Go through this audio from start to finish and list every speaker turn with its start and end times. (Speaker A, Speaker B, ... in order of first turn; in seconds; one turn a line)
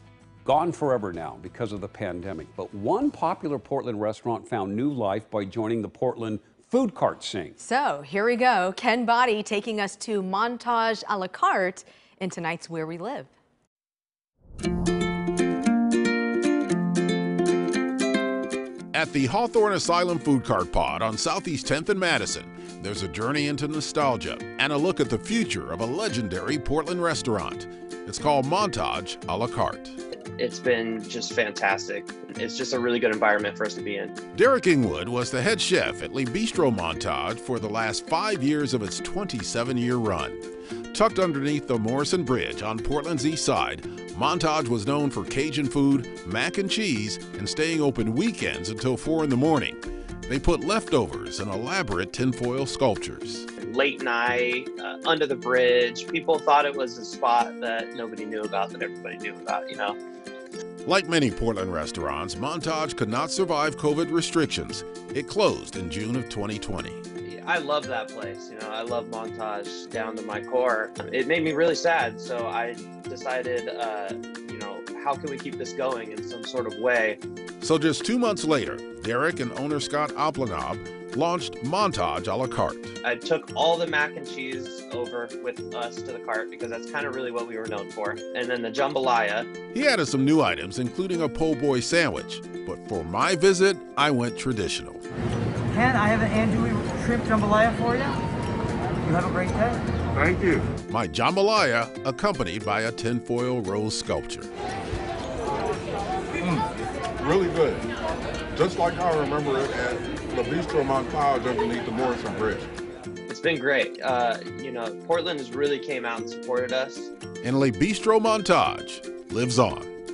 Speaker A: 0.5-7.6
Speaker B: 7.7-13.3
Speaker C: 18.9-30.0
Speaker D: 30.4-34.1
Speaker C: 34.3-40.4
Speaker C: 40.9-53.5
Speaker D: 53.6-60.0
Speaker C: 60.9-67.0
Speaker D: 67.2-77.2
Speaker C: 77.6-83.0
Speaker D: 83.0-89.5
Speaker C: 89.7-95.0
Speaker E: 95.7-98.2
Speaker E: 99.0-99.8
Speaker C: 100.8-104.5
Speaker F: 107.2-107.8
Speaker F: 108.6-112.7
Speaker D: 113.3-117.1
Speaker C: 117.4-119.9